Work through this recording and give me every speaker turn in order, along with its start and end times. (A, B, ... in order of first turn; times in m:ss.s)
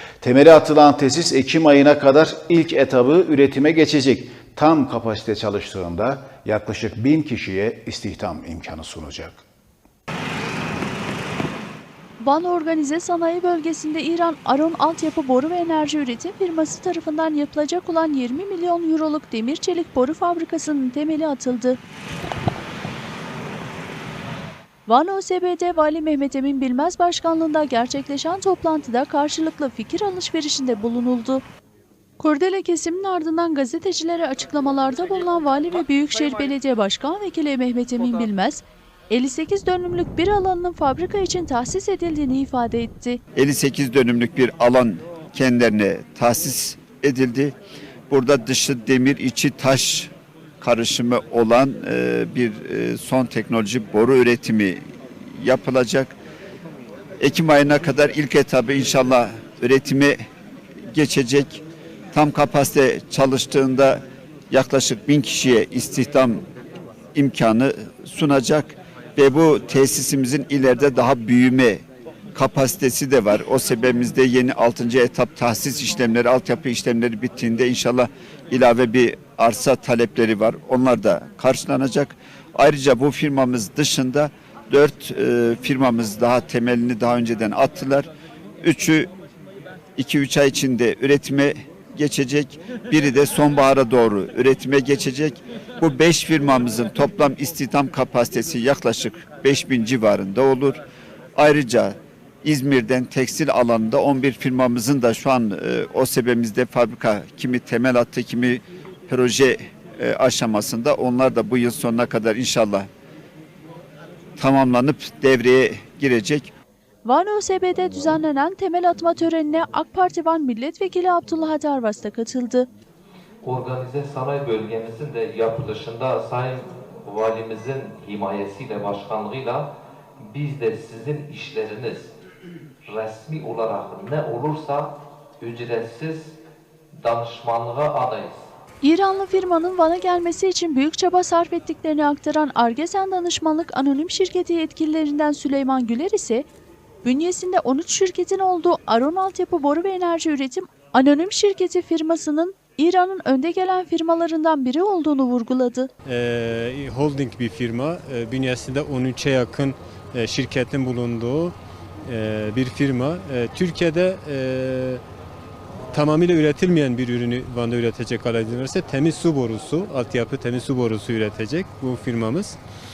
0:00.2-0:09.4 A
0:12.2-0:21.8 B
0:24.9-0:31.4 B
0:32.2-0:43.2 B
0:43.3-0:47.6 C
0:48.1-0:56.2 C
0:57.2-1:00.2 C
1:00.9-1:06.4 C
1:07.1-1:28.1 C
1:28.6-1:29.1 C
1:30.0-1:40.8 C
1:41.3-1:52.9 C
1:54.4-1:56.5 C
1:57.0-2:02.7 B
2:03.4-2:09.6 D
2:10.2-2:12.1 D
2:12.8-2:16.4 D
2:17.0-2:18.5 D
2:18.8-2:26.5 B
2:27.0-2:35.9 B
2:36.0-2:41.5 E
2:42.0-2:45.0 E
2:45.9-2:52.6 E